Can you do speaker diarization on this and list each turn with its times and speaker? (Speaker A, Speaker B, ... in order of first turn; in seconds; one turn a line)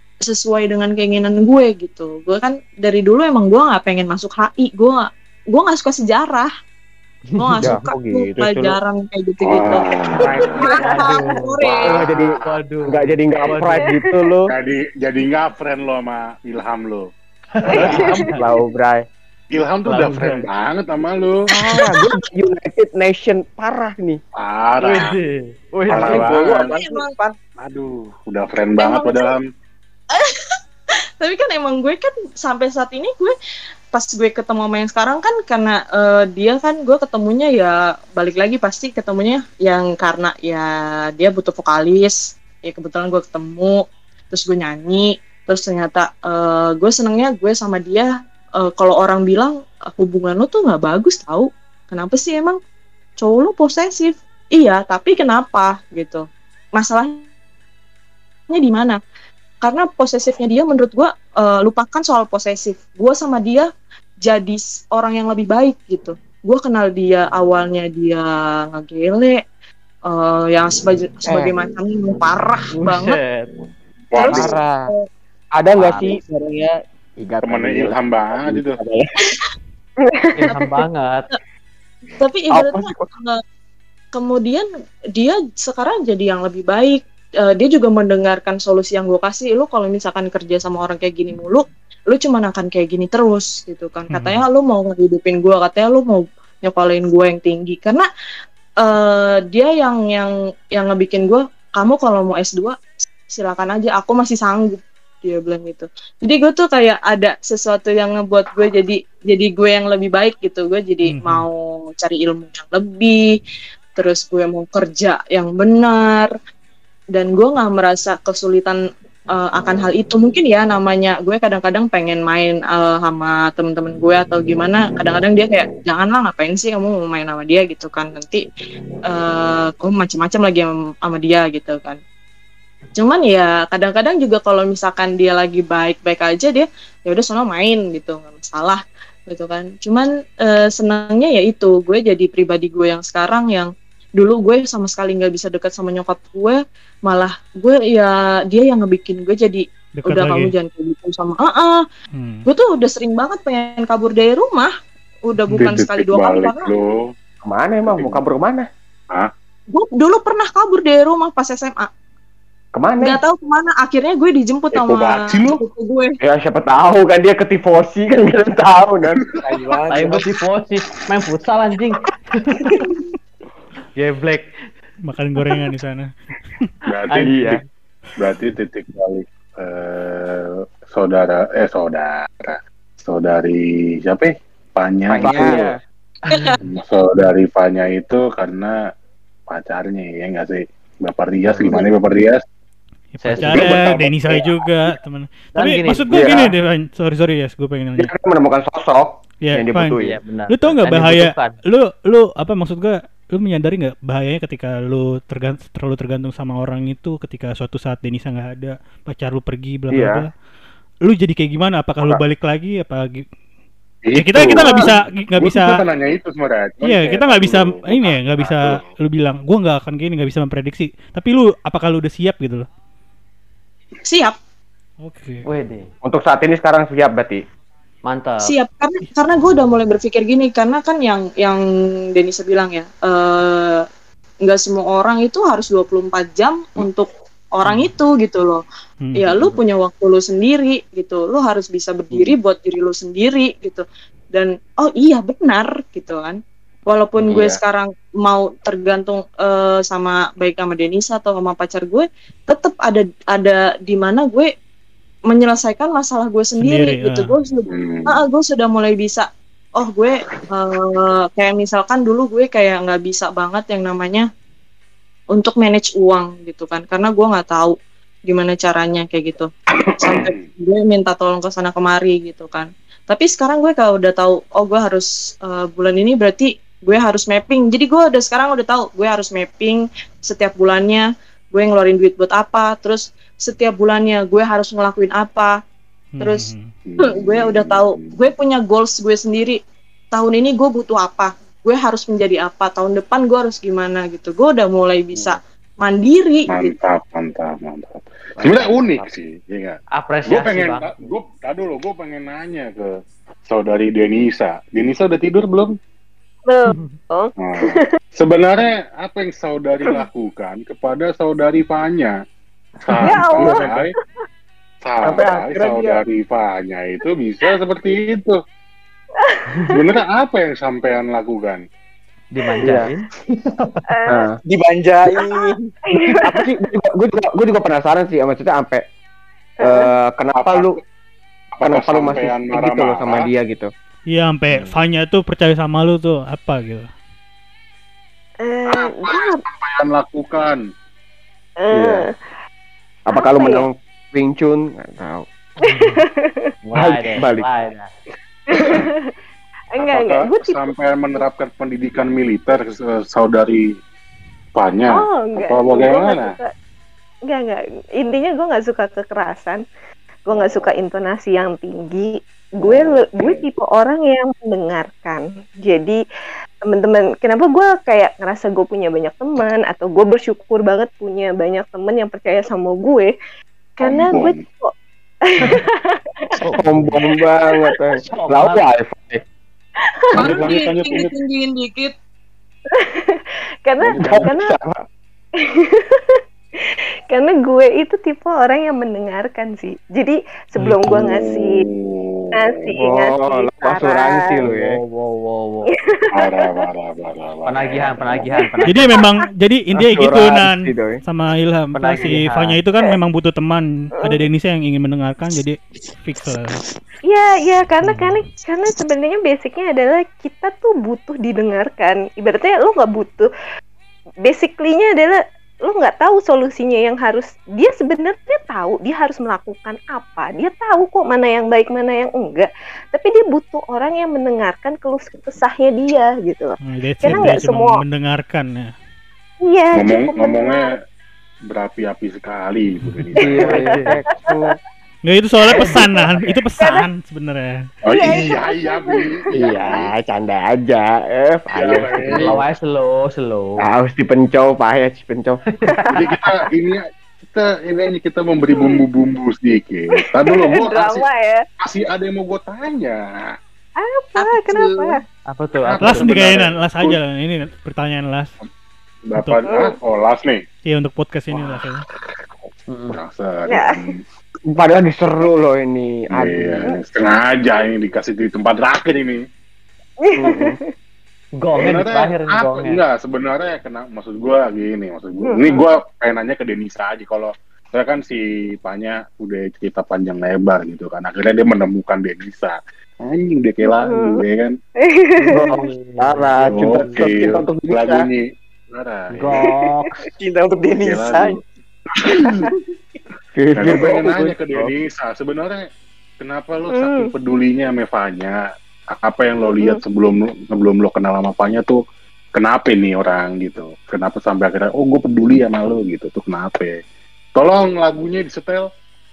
Speaker A: 0.2-6.5
Speaker B: 7.3-7.7
Speaker A: 7.4-9.9
Speaker C: 7.6-8.8
Speaker D: 9.4-10.6
Speaker B: 10.2-13.9
Speaker A: 10.6-11.9
Speaker D: 11.6-12.6
Speaker C: 11.9-12.3
Speaker C: 12.9-14.5
Speaker E: 13.8-14.2
Speaker D: 14.5-17.1
Speaker B: 17.6-18.5
Speaker D: 17.7-18.3
Speaker E: 17.8-18.3
Speaker C: 17.8-19.0
Speaker D: 19.5-21.4
Speaker B: 19.9-20.5
Speaker C: 21.5-24.2
Speaker D: 24.4-25.1
Speaker B: 24.8-26.4
Speaker D: 25.9-26.7
Speaker F: 26.0-27.4
Speaker A: 26.6-27.1
Speaker D: 27.6-29.4
Speaker A: 28.8-29.3
Speaker A: 30.1-30.5
Speaker A: 31.2-33.4
Speaker A: 33.9-48.1
Speaker A: 48.6-52.6
Speaker A: 53.2-56.2
Speaker A: 56.8-57.2
Speaker A: 58.5-59.0
Speaker A: 59.6-63.7
Speaker A: 64.2-69.4
Speaker A: 70.1-73.2
Speaker F: 71.3-71.6
Speaker B: 72.8-73.5
Speaker D: 74.1-74.6
Speaker A: 74.2-75.0
Speaker C: 74.3-74.8
Speaker C: 75.6-76.3
Speaker B: 75.8-76.2
Speaker C: 77.2-79.3
Speaker D: 77.4-78.8
Speaker E: 80.0-80.8
Speaker B: 80.3-81.3
Speaker A: 82.2-83.4
Speaker C: 82.5-83.0
Speaker A: 84.2-84.7
Speaker A: 85.2-98.1
Speaker G: 94.1-94.4
Speaker A: 98.8-113.3
Speaker G: 111.1-111.5
Speaker A: 114.0-116.3
Speaker A: 117.1-118.8
Speaker A: 119.3-128.4
Speaker A: 129.1-132.0
Speaker A: 133.0-151.8
Speaker G: 150.0-150.5
Speaker G: 152.1-152.4
Speaker A: 152.5-154.7
Speaker A: 155.3-156.7
Speaker G: 155.5-155.8
Speaker D: 155.6-156.9
Speaker C: 157.4-158.7
Speaker D: 157.9-158.2
Speaker A: 159.7-161.9
Speaker C: 162.7-163.2
Speaker A: 163.0-166.1
Speaker D: 164.7-165.6
Speaker C: 166.2-169.2
Speaker D: 169.2-169.6
Speaker F: 169.5-170.3
Speaker B: 169.9-172.9
Speaker B: 174.0-174.5
Speaker G: 175.1-176.1
Speaker D: 176.9-177.5
Speaker B: 177.1-177.6
Speaker C: 177.2-177.6
Speaker D: 178.2-185.4
Speaker F: 185.1-185.6
Speaker C: 185.2-185.7
Speaker B: 185.3-185.7
Speaker A: 186.3-186.6
Speaker B: 186.3-186.6
Speaker D: 186.6-188.7
Speaker D: 189.5-192.4
Speaker B: 191.4-191.9
Speaker G: 193.2-198.1
Speaker B: 193.2-193.8
Speaker D: 193.4-194.6
Speaker B: 195.6-196.5
Speaker C: 196.1-196.5
Speaker C: 198.0-200.2
Speaker G: 199.4-210.3
Speaker B: 200.0-201.6
Speaker C: 209.9-210.2
Speaker G: 211.1-213.2
Speaker D: 214.1-218.8
Speaker G: 214.2-215.8
Speaker G: 216.8-222.7
Speaker A: 224.1-224.3
Speaker G: 225.0-225.4
Speaker B: 225.4-225.9
Speaker C: 226.0-227.4
Speaker B: 228.1-228.6
Speaker A: 228.4-231.6
Speaker A: 232.2-233.8
Speaker A: 234.4-238.6
Speaker G: 239.0-239.6
Speaker A: 239.2-254.5
Speaker D: 247.2-247.6
Speaker A: 255.3-264.3
Speaker G: 256.6-257.3
Speaker D: 257.7-258.2
Speaker A: 265.3-267.8
Speaker A: 268.3-269.5
Speaker D: 269.8-270.4
Speaker A: 270.0-285.5
Speaker G: 286.2-286.7
Speaker A: 286.2-286.5
Speaker D: 286.9-288.3
Speaker A: 287.1-289.6
Speaker A: 290.1-296.7
Speaker D: 296.5-302.9
Speaker C: 298.4-299.1
Speaker B: 299.9-301.1
Speaker D: 303.5-305.7
Speaker E: 306.5-308.0
Speaker B: 306.7-307.0
Speaker D: 307.4-312.2
Speaker D: 312.8-313.9
Speaker B: 312.9-313.3
Speaker E: 313.0-313.8
Speaker C: 313.3-313.7
Speaker D: 314.9-318.4
Speaker C: 315.1-316.0
Speaker E: 319.2-320.0
Speaker D: 319.7-321.6
Speaker B: 322.3-323.8
Speaker C: 322.6-322.9
Speaker E: 323.9-324.3
Speaker C: 324.1-324.4
Speaker F: 324.4-325.6
Speaker E: 325.1-326.5
Speaker C: 326.2-328.8
Speaker E: 329.6-329.9
Speaker C: 329.6-330.7
Speaker D: 330.4-330.8
Speaker D: 331.5-333.3
Speaker C: 331.6-333.7
Speaker G: 334.1-336.9
Speaker E: 338.4-339.4
Speaker D: 338.7-340.6
Speaker E: 341.6-342.1
Speaker C: 341.7-342.0
Speaker C: 343.1-345.3
Speaker E: 343.1-343.7
Speaker E: 345.6-346.5
Speaker B: 345.6-346.0
Speaker B: 346.6-347.9
Speaker C: 346.8-347.5
Speaker E: 348.5-349.1
Speaker E: 349.7-350.7
Speaker D: 349.8-353.6
Speaker D: 354.6-356.4
Speaker E: 354.9-356.5
Speaker E: 357.3-359.6
Speaker E: 360.3-366.0
Speaker D: 360.3-360.7
Speaker D: 362.6-363.4
Speaker E: 366.7-373.1
Speaker E: 373.8-374.7
Speaker D: 373.8-374.4
Speaker E: 375.2-376.4
Speaker B: 376.4-377.0
Speaker C: 376.5-379.2
Speaker E: 377.5-377.8
Speaker B: 378.1-378.6
Speaker E: 379.8-380.3
Speaker A: 380.2-381.9
Speaker D: 380.2-381.1
Speaker E: 382.7-384.6
Speaker D: 383.8-384.3
Speaker C: 384.0-384.8
Speaker E: 385.4-391.6
Speaker G: 390.6-391.0
Speaker D: 390.9-392.8
Speaker E: 392.4-394.4
Speaker C: 392.8-394.8
Speaker B: 394.4-395.7
Speaker E: 395.6-396.7
Speaker D: 396.1-398.4
Speaker B: 397.5-399.0
Speaker E: 398.4-399.1
Speaker G: 398.7-406.6
Speaker C: 399.8-401.0
Speaker B: 401.8-402.6
Speaker E: 404.0-404.3
Speaker E: 407.0-413.3
Speaker E: 414.2-427.8
Speaker G: 426.6-428.7
Speaker E: 429.4-430.6
Speaker D: 429.7-430.8
Speaker D: 431.5-433.5
Speaker G: 432.8-433.1
Speaker B: 433.2-434.0
Speaker E: 433.2-434.5
Speaker F: 433.3-434.5
Speaker G: 435.1-437.5
Speaker B: 435.5-436.3
Speaker E: 435.6-435.9
Speaker E: 436.6-436.9
Speaker D: 437.8-439.9
Speaker E: 437.9-439.5
Speaker C: 439.3-442.4
Speaker D: 441.5-442.4
Speaker B: 442.1-443.6
Speaker C: 443.6-445.4
Speaker B: 445.6-446.5
Speaker D: 445.9-451.1
Speaker E: 448.5-448.8
Speaker E: 450.0-451.4
Speaker D: 451.6-453.0
Speaker E: 453.8-455.0
Speaker A: 454.2-454.9
Speaker B: 455.3-456.3
Speaker D: 455.6-457.0
Speaker G: 455.8-458.3
Speaker D: 459.1-460.4
Speaker E: 459.4-459.8
Speaker G: 460.7-461.9
Speaker B: 462.7-463.0
Speaker D: 462.9-464.0
Speaker E: 463.5-463.9
Speaker C: 464.5-466.7
Speaker D: 466.1-469.2
Speaker E: 470.0-470.7
Speaker C: 470.2-470.6
Speaker B: 471.4-472.8
Speaker D: 471.6-484.5
Speaker E: 475.2-475.7
Speaker E: 483.6-484.2
Speaker E: 484.8-485.7
Speaker C: 485.3-488.0
Speaker B: 485.4-487.1
Speaker D: 486.5-489.4
Speaker B: 489.1-490.0
Speaker F: 490.2-491.4
Speaker D: 490.8-491.4
Speaker D: 492.0-492.5
Speaker C: 493.4-494.7
Speaker D: 493.6-495.6
Speaker D: 496.2-498.4
Speaker E: 496.7-497.1
Speaker D: 499.0-501.8
Speaker E: 499.5-499.8
Speaker D: 502.4-506.8
Speaker D: 507.4-508.6